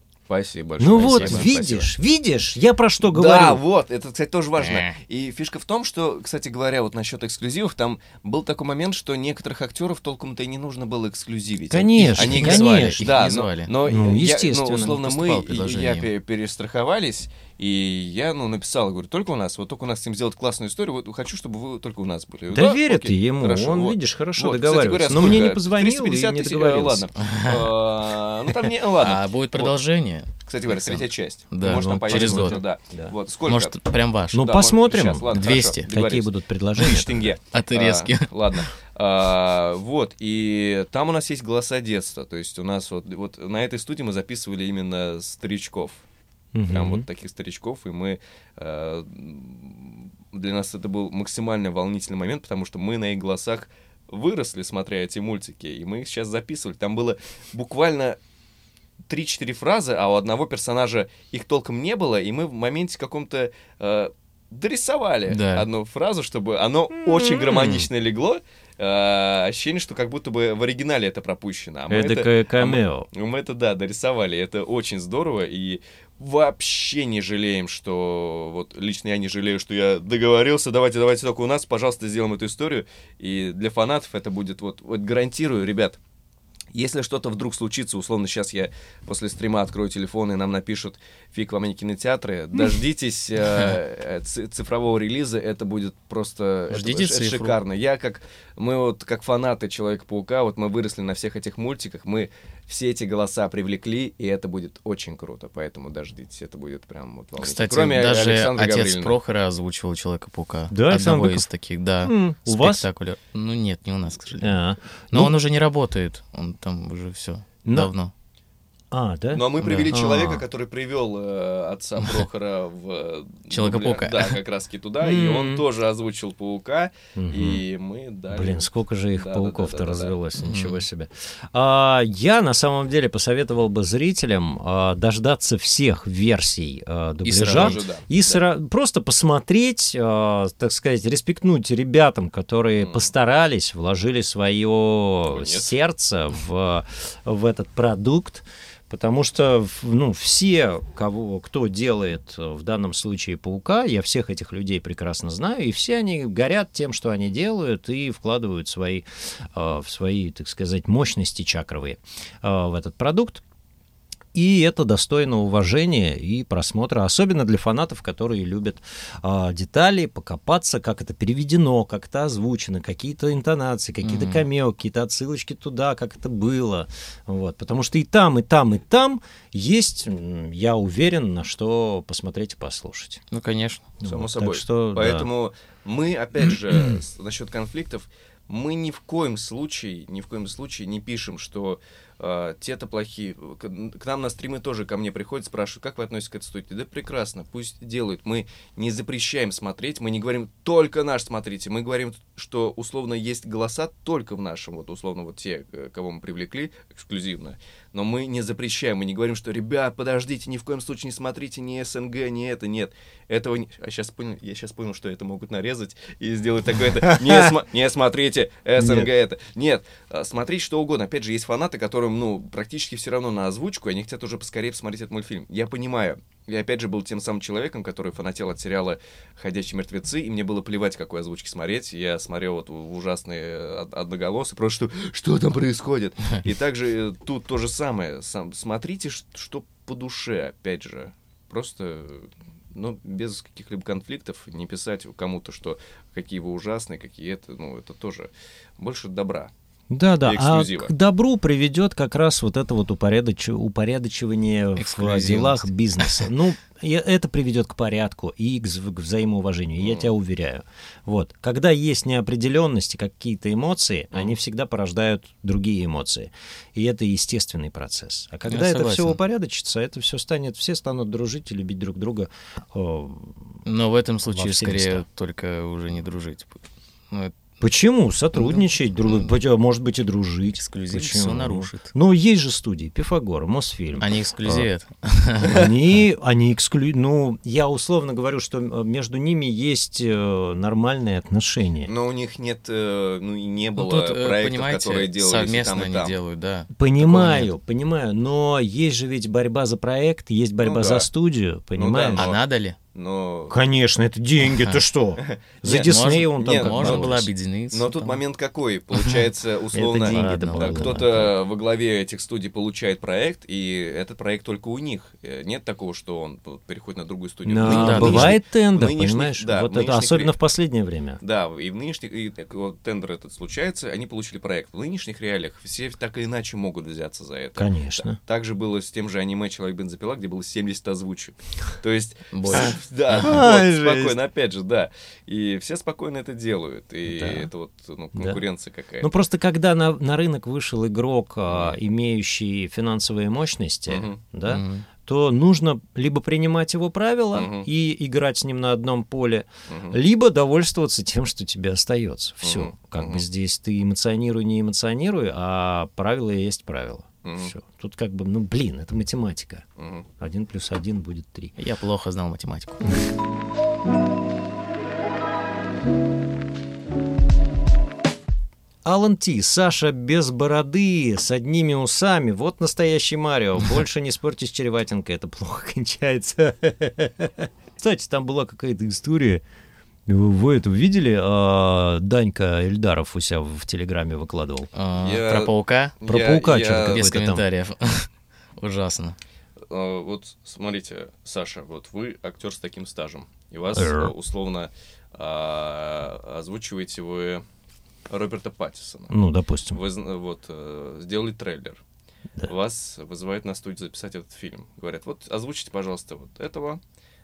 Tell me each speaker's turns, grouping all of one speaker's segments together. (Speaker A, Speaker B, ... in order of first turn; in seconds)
Speaker A: 0.3-1.9, 3.1-29.7, 30.5-33.8, 34.3-46.0, 46.7-58.2, 59.1-86.0, 86.7-109.2, 119.3-130.1, 137.4-138.4, 142.8-143.1, 145.3-145.7, 184.1-249.5, 250.2-250.9, 259.8-260.1, 291.9-296.2, 300.6-301.1, 301.8-302.4, 302.9-303.6, 305.2-320.3, 321.2-339.1, 341.5-341.8, 343.9-344.2, 347.3-347.7, 349.7-350.0, 352.4-353.2, 357.2-357.5, 359.8-360.1, 385.0-387.1, 389.7-397.4, 398.1-399.2, 399.7-401.8, 402.4-406.8
Speaker B: 0.8-3.6, 11.7-13.2, 13.8-15.0, 22.5-27.1, 31.9-33.1, 34.3-37.3, 46.5-47.0, 67.0-67.8, 71.9-73.1, 110.7-111.5, 112.0-112.9, 114.4-115.4, 117.7-117.9, 118.9-120.3, 125.0-125.6, 127.2-127.6, 128.3-163.4, 164.3-183.2, 184.0-185.3, 217.1-217.5, 218.8-219.1, 249.9-273.6, 274.3-275.1, 277.6-284.7, 285.4-291.9, 296.8-302.3, 303.5-307.3, 309.7-311.3, 317.5-321.2, 327.6-328.2, 332.5-334.2, 337.1-337.5, 339.0-359.6, 360.2-361.5, 368.8-379.4, 380.1-384.7, 386.1-387.4, 393.8-394.1, 399.1-399.8
Speaker C: 1.0-1.6, 4.6-5.0, 12.0-13.7, 14.9-16.1, 27.2-27.6, 29.0-32.6, 33.5-34.4, 35.3-35.9, 37.5-38.6, 65.3-65.7, 96.7-97.6, 107.4-114.6, 115.1-118.1, 119.9-120.4, 123.5-124.4, 130.4-130.8, 137.2-137.8, 174.0-174.4, 183.3-183.9, 254.8-256.2, 268.5-269.2, 273.6-277.4, 278.4-278.6, 280.6-281.9, 284.0-285.6, 293.8-297.5, 302.2-302.8, 304.5-304.8, 305.7-308.2, 309.9-311.1, 317.6-318.4, 332.3-333.3, 344.5-344.9, 361.6-363.0, 384.7-386.0, 386.8-389.2